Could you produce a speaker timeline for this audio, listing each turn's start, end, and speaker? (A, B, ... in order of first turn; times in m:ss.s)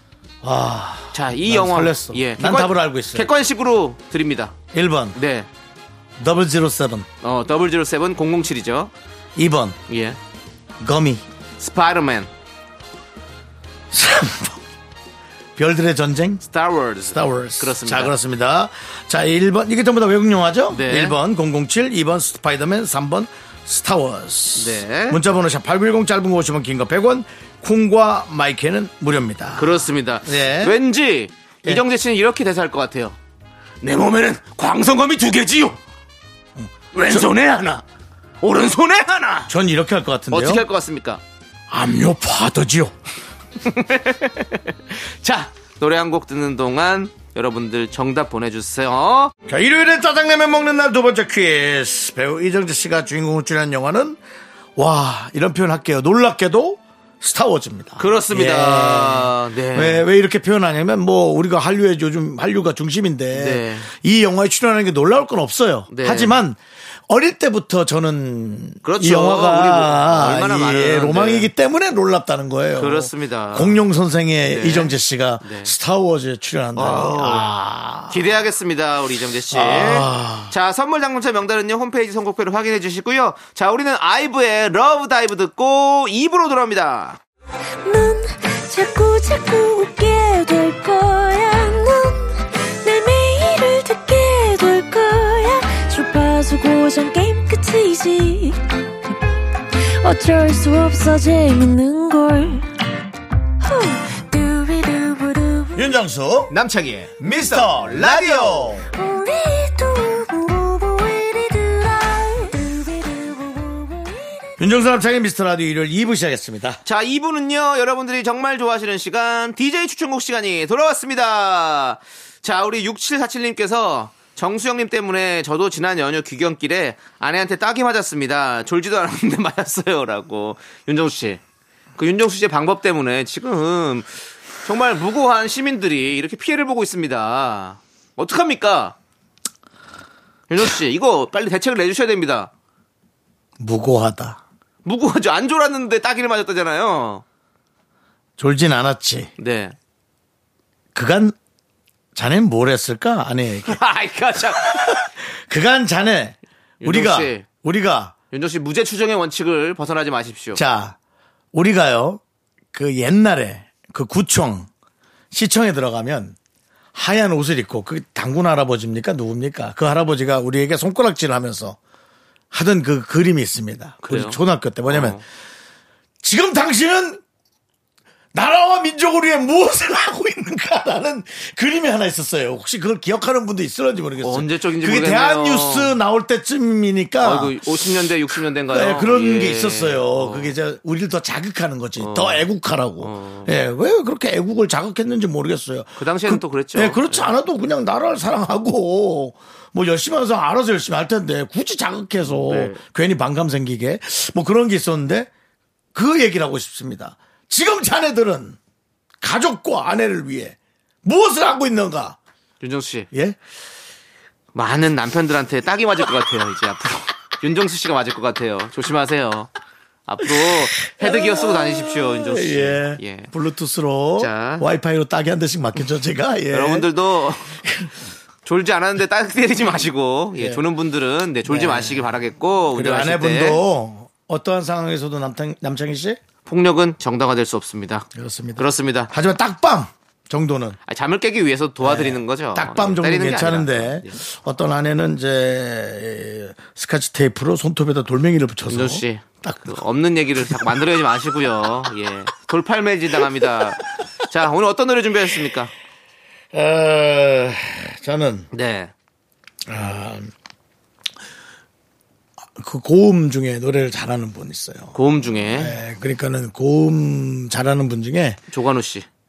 0:00.4-0:03.3 A
0:01.1-0:04.5 B
0:04.7-0:05.2 A
0:05.1-0:05.5 B
0:06.2-0:07.1 A
0:07.2-0:08.9 B
0:09.4-0:09.8 A
0:09.9-0:10.2 B
0:10.8-0:11.2 A
0:11.6-0:12.3 B
0:13.9-0:14.6 A
0:15.6-0:16.4 A
0:16.5-0:18.1 B
0:17.1-0:30.8 A
0:20.7-0:21.2 B
0:24.6-0:25.2 B
0:29.6-0:33.2 B
0:33.8-0:35.8 B
0:36.6-0:37.3 A
0:36.9-0:37.8 B
0:38.4-0:39.5 B
0:39.5-0:40.6 A
0:40.3-0:41.2 B
0:41.7-0:42.9 A
0:43.6-0:49.3 B
0:49.4-0:54.2 A
0:54.8-1:18.2 A
0:58.0-1:00.0 B
1:03.3-1:03.9 B
1:05.9-1:06.4 B
1:08.8-1:11.5 B
1:12.8-1:13.8 B
1:14.4-1:15.7 B
1:16.8-1:17.5 B
1:18.1-1:27.2 B
1:19.5-1:20.5 A
1:27.8-1:38.6 C
1:39.9-1:42.7 C
1:43.6-1:45.8 C
1:45.8-1:46.5 A
1:46.5-1:48.8 B
1:47.2-1:48.9 A
1:48.9-1:54.6 C
1:54.6-1:56.8 A
1:56.8-2:11.4 B
2:12.0-2:14.1 B
2:14.6-2:18.9 B
2:20.5-2:22.5 B
2:23.6-2:24.4 A
2:24.8-2:27.2 B
2:28.4-2:29.3 A
2:29.4-2:29.8 B
2:30.9-2:31.4 A
2:32.1-2:33.8 A
2:33.6-2:35.0 B
2:34.4-2:38.1 A
2:36.8-2:37.4 B
2:38.3-2:40.6 B
2:40.5-2:41.0 A
2:41.5-2:42.2 A
2:42.7-2:44.7 A
2:45.3-2:46.4 A
2:46.9-2:51.8 A
2:52.5-2:55.2 A
2:54.0-2:55.2 B
2:56.2-2:57.2 A
2:58.3-3:07.8 A
3:04.2-3:06.0 B
3:07.2-3:10.6 B
3:08.3-3:25.3 A
3:12.0-3:12.5 B
3:13.0-3:13.5 B
3:16.0-3:17.3 B
3:22.2-3:22.8 B
3:25.9-3:28.6 A
3:29.2-3:32.2 A
3:32.6-3:33.1 B
3:33.1-3:33.4 A
3:34.5-3:39.5 B
3:40.1-3:43.3 B
3:40.2-3:46.9 A
3:44.2-3:44.6 B
3:46.5-3:47.6 B
3:47.5-3:47.9 A
3:48.4-3:53.6 B
3:50.4-3:50.6 A
3:51.4-3:52.1 A
3:52.7-3:56.2 A
3:56.4-3:59.1 B
3:58.1-4:00.8 A
4:00.9-4:04.2 B
4:01.8-4:09.8 A
4:08.7-4:15.7 B
4:16.5-4:18.5 A
4:18.5-4:18.9 B
4:19.7-4:20.3 A
4:22.6-4:28.4 A
4:24.9-4:25.8 B
4:28.5-4:29.0 B